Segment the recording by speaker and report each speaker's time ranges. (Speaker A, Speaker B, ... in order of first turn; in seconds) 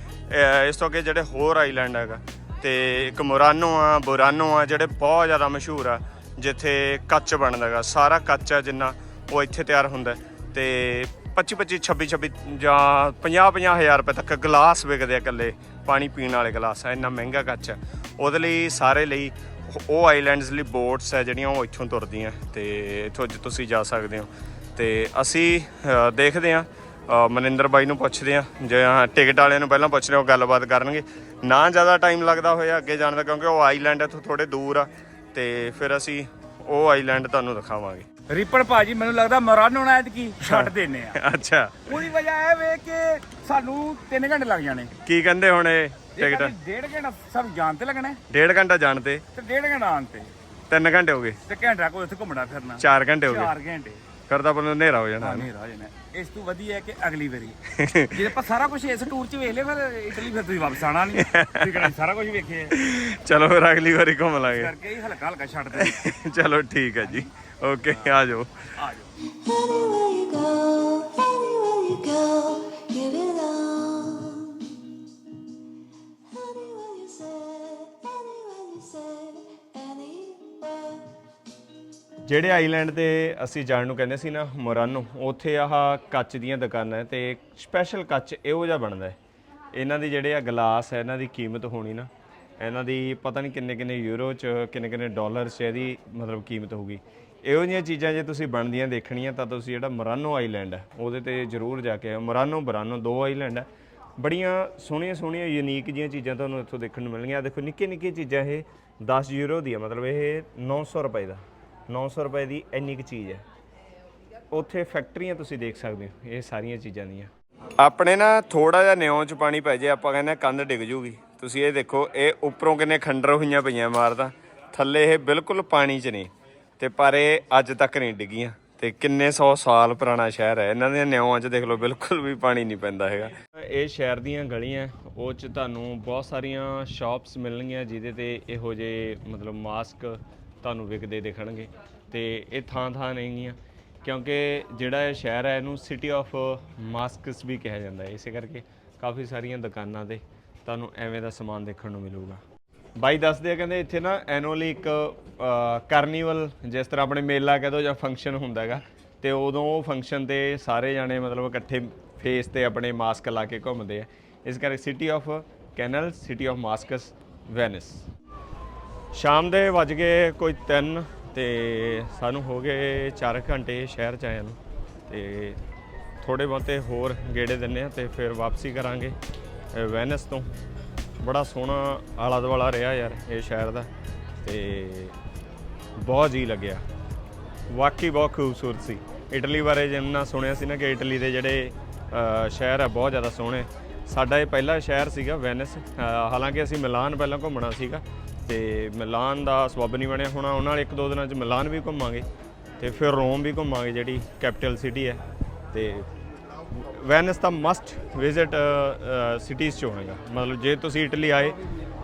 Speaker A: 0.3-38.1, 40.4-41.9, 45.0-46.5, 48.3-49.2, 50.7-51.4, 52.8-53.5, 54.3-55.5, 57.7-58.3, 61.1-61.9, 62.7-64.7, 65.7-68.7, 82.2-89.2, 89.7-113.4, 114.5-152.4, 152.9-168.0, 169.1-175.6, 176.2-179.1, 179.7-180.5, 181.2-183.9, 184.4-185.2, 185.9-186.8, 187.7-202.2, 202.8-205.2, 205.7-206.1, 206.7-211.6
Speaker B: 38.3-41.2, 41.9-44.9, 46.1-48.2, 49.3-50.3, 51.5-54.0, 55.2-57.6, 58.1-62.8, 64.5-66.1, 68.8-69.1
Speaker C: 69.2-74.7, 76.3-81.2